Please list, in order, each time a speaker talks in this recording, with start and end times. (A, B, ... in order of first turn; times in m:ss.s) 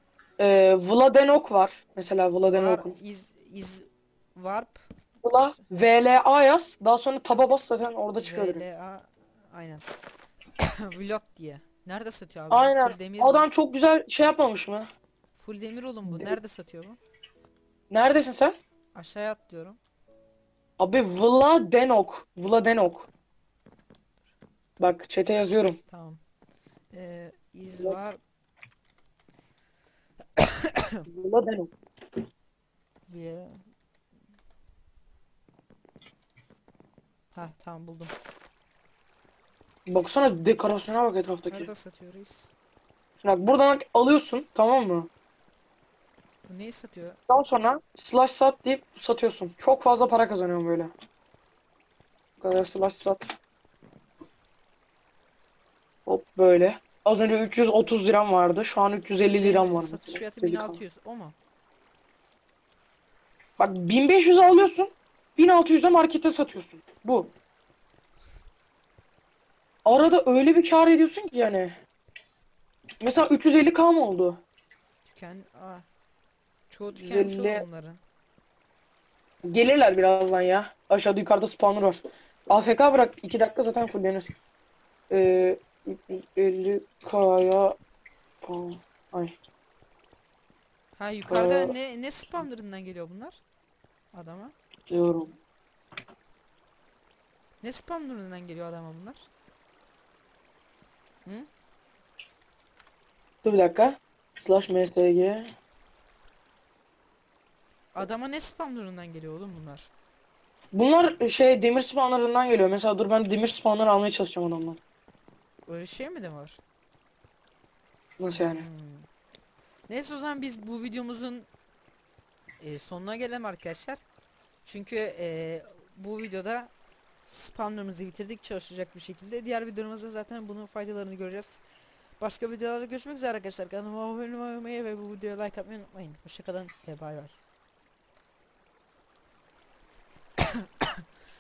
0:00.4-0:02.9 A
0:02.5-0:04.9 B
0:05.2-0:08.6 A
0:08.1-0:09.8 B
0:10.6-0:13.5 B
0:12.5-0:14.9 A
0:15.4-0:17.0 B
0:16.1-0:16.4 A
0:17.9-0:18.6 A
0:18.9-0:19.8 B
0:20.8-0:23.1 A
0:24.8-0:25.8 A
0:25.9-0:26.2 B
0:26.9-0:28.2 B
0:30.4-0:31.1 B
0:31.1-0:31.7 A
0:33.1-0:33.6 B
0:37.3-0:38.1 B
0:39.9-0:41.7 A
0:41.5-0:42.5 B
0:43.2-0:45.1 A
0:46.5-0:47.2 B
0:47.3-0:50.9 A
0:52.4-0:53.4 A
0:56.1-1:00.8 A
0:59.3-1:01.4 B
1:03.6-1:07.3 A
1:09.8-1:11.8 A
1:13.0-1:14.4 A
1:15.0-1:15.9 B
1:16.7-1:18.0 B
1:16.9-1:17.6 A
1:19.5-1:24.3 A
1:25.1-1:27.8 A
1:28.4-1:29.4 A
1:31.0-1:33.4 B
1:31.3-1:31.7 A
1:34.1-1:34.6 B
1:34.9-1:35.3 A
1:37.6-1:39.3 B
1:43.4-1:45.5 A
1:47.9-1:49.9 B
1:50.7-1:54.8 A
1:55.7-1:56.6 B
1:58.2-1:58.6 A
1:58.4-1:59.1 B
1:59.9-2:01.5 B
2:02.6-2:04.0 B
2:04.6-2:06.7 B
2:07.2-2:11.6 B
2:12.2-2:17.4 B
2:20.5-2:21.0 B